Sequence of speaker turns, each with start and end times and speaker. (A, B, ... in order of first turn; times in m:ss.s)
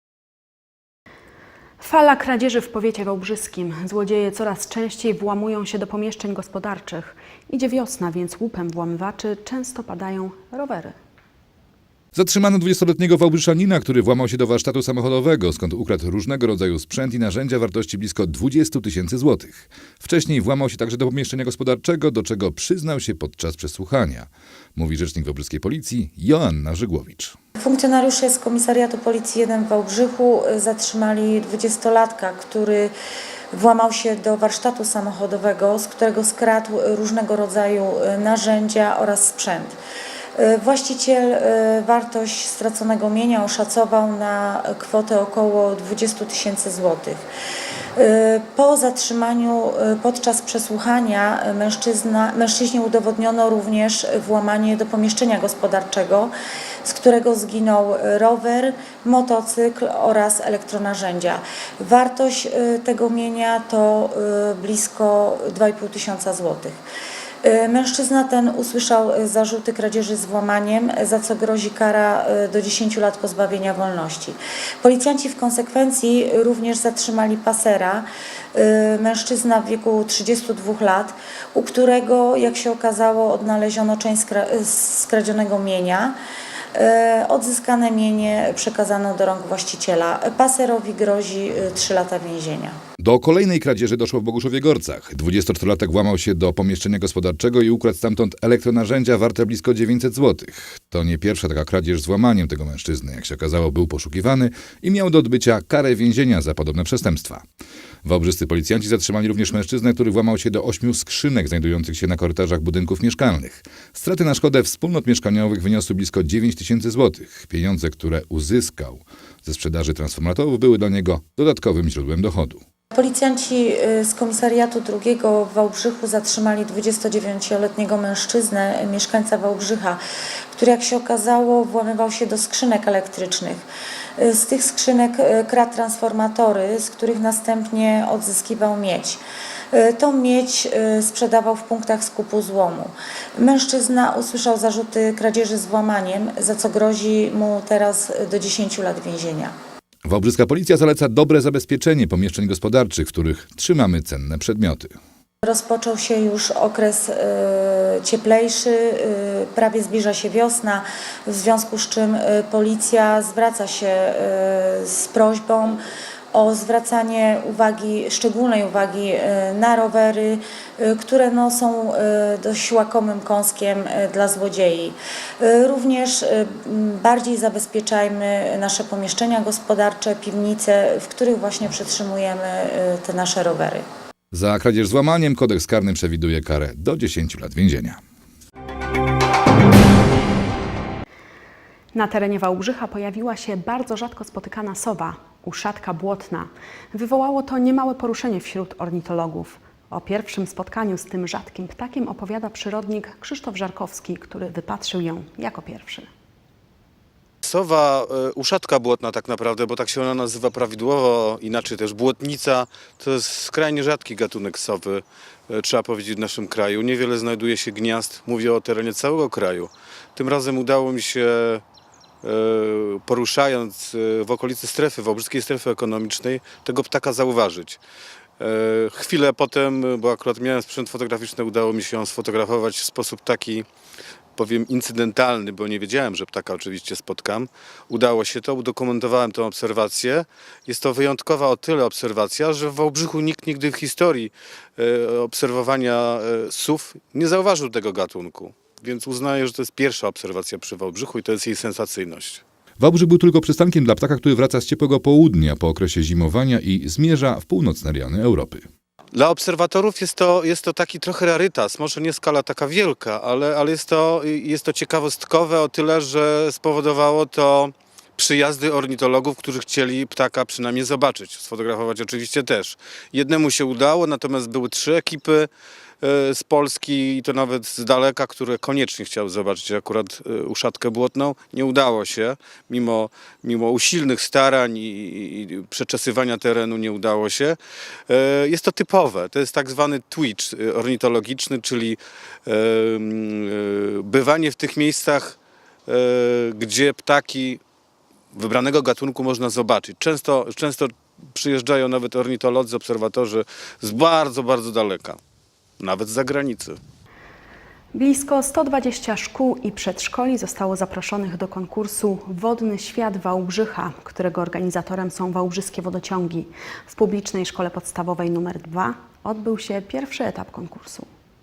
0:01.8-0:10.9 A
0:12.1-0:27.4 B
0:27.6-0:32.9 C
0:33.5-0:39.8 C
0:40.4-0:47.2 C
0:48.0-0:56.3 C
0:56.8-1:06.8 C
1:07.4-1:26.2 C
1:26.7-1:32.8 C
1:33.0-1:47.4 B
1:48.0-2:02.6 B
2:02.9-2:10.0 C
2:10.5-2:13.6 C
2:14.2-2:19.2 C
2:19.7-2:29.5 C
2:30.0-2:35.0 B
2:35.4-2:45.8 C
2:46.3-3:03.8 C
3:04.3-3:08.0 B
3:11.9-3:26.1 A
3:27.4-3:41.6 D
3:42.2-3:47.8 D
3:48.4-3:53.7 D
3:54.4-4:12.4 D
4:12.8-4:18.7 B
4:19.1-4:35.5 D
4:36.0-4:57.6 D
4:58.3-5:05.2 D
5:05.8-5:06.8 D
5:07.9-5:21.1 A